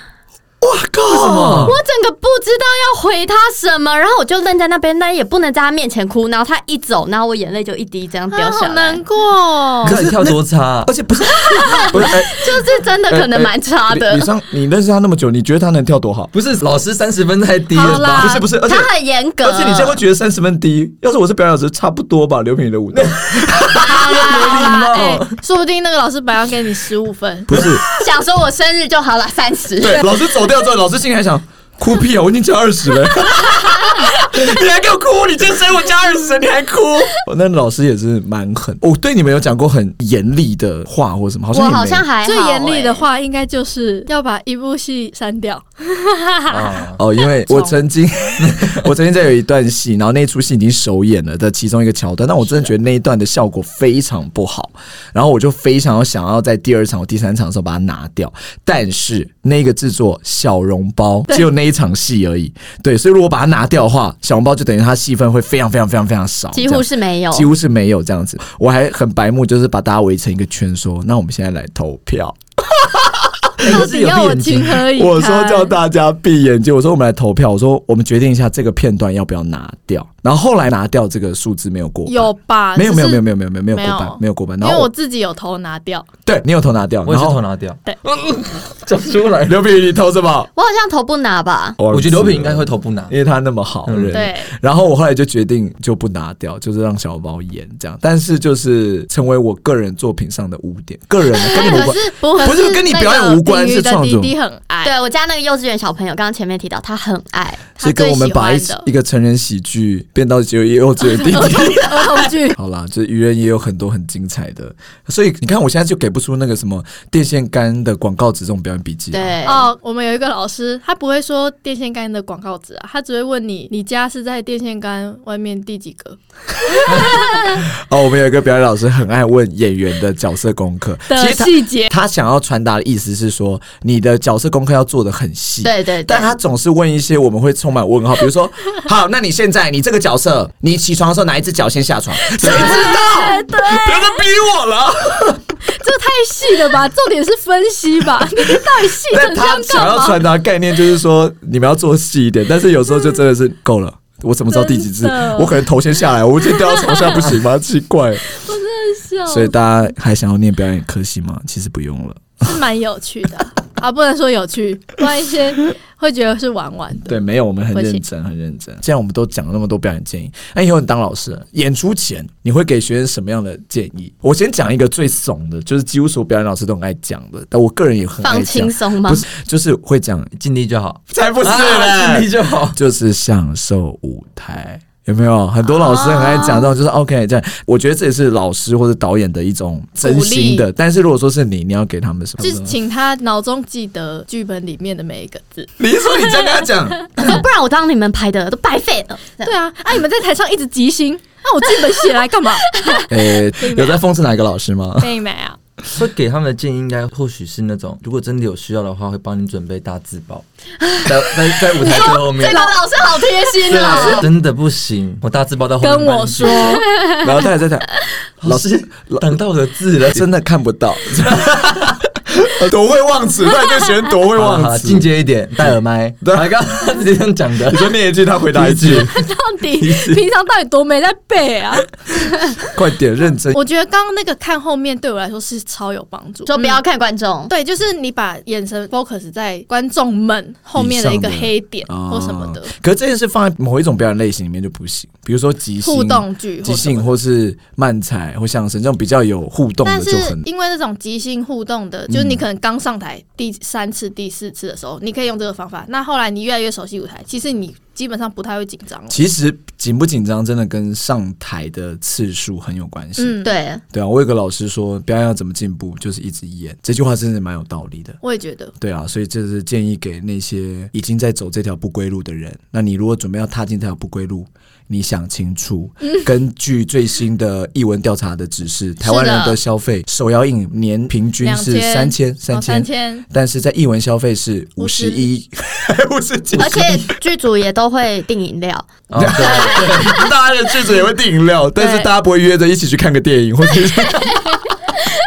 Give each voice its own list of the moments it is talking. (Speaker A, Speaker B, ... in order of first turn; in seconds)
Speaker A: 0.6-1.8, 9.8-12.6, 13.1-16.3, 17.9-18.9, 19.4-24.4, 27.5-27.8, 29.8-42.0, 47.0-73.7, 74.9-84.9, 86.3-87.4, 89.5-90.5, 91.8-104.3, 107.8-119.3, 126.9-145.6, 149.0-158.2, 159.3-162.5, 167.1-180.3, 181.1-192.8, 195.8-197.4, 203.1-205.1, 217.2-217.9, 218.4-219.4, 220.1-225.1, 226.2-226.5, 227.7-229.1, 232.7-233.6, 240.7-250.4, 252.1-252.4, 259.1-268.2, 268.8-287.2, 289.1-294.6
Speaker B: 1.1-1.8, 9.8-10.9, 16.3-18.4, 22.9-25.4, 46.5-47.0, 48.4-48.9, 73.6-74.9, 87.0-89.6, 91.9-93.1, 93.9-94.2, 180.3-182.8, 206.0-210.4, 211.0-212.7, 213.7-216.8, 218.4-220.2, 224.3-228.0, 228.5-229.2, 229.8-230.2, 289.1-290.3
Speaker C: 1.6-9.0, 11.6-14.3, 18.6-20.0, 27.9-30.1, 41.5-43.0, 66.5-67.5, 90.6-91.8, 101.3-102.6, 104.8-107.7, 119.1-119.7, 135.6-136.3, 178.2-179.2, 185.7-186.7, 197.2-199.6, 202.7-203.1, 210.8-214.3, 236.5-237.5, 263.4-263.8, 286.6-290.1
Speaker D: 8.3-10.0, 17.7-18.5, 23.8-27.5, 42.2-46.7, 47.4-47.8, 52.5-52.7, 73.6-75.8, 82.1-86.1, 94.1-94.5, 101.5-104.9, 107.8-108.9, 111.0-112.6, 119.5-127.6, 131.1-131.9, 142.4-144.2, 145.7-150.2, 154.5-155.6, 156.6-157.2, 158.3-159.6, 162.4-167.2, 167.7-168.0, 190.0-190.7, 192.4-195.7, 196.3-196.6, 199.4-203.1, 203.6-204.0, 205.0-205.6, 211.8-212.8, 213.7-214.3, 215.8-217.4, 228.9-232.6, 233.5-236.8, 237.5-242.7, 245.8-247.1, 249.8-259.2, 263.2-263.5, 268.2-268.7, 279.0-279.6, 281.4-283.2, 284.8-285.3, 291.8-292.1